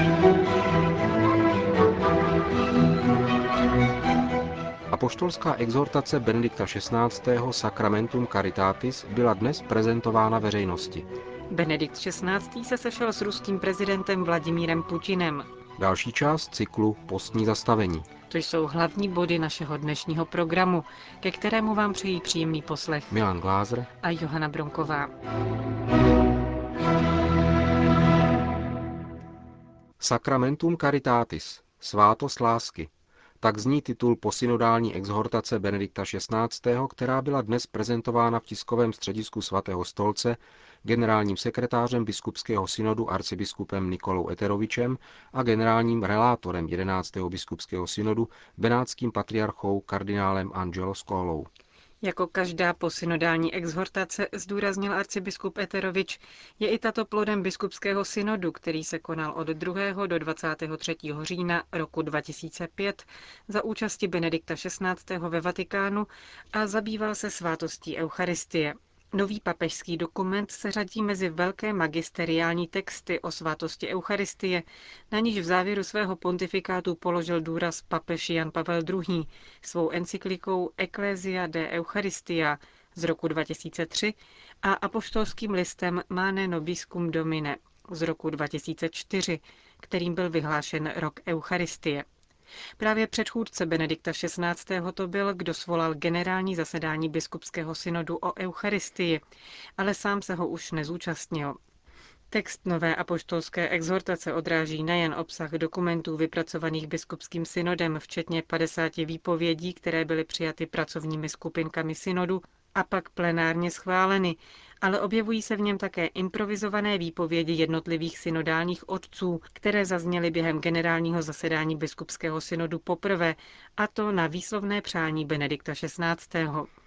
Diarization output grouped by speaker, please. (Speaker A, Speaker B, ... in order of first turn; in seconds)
Speaker A: 4.9-11.1, 15.8-18.1, 23.1-23.9, 30.0-32.9, 33.4-51.5
Speaker B: 11.5-15.5, 18.3-23.2, 24.0-25.1, 52.0-92.0, 92.8-99.2, 99.8-101.6, 102.3-126.7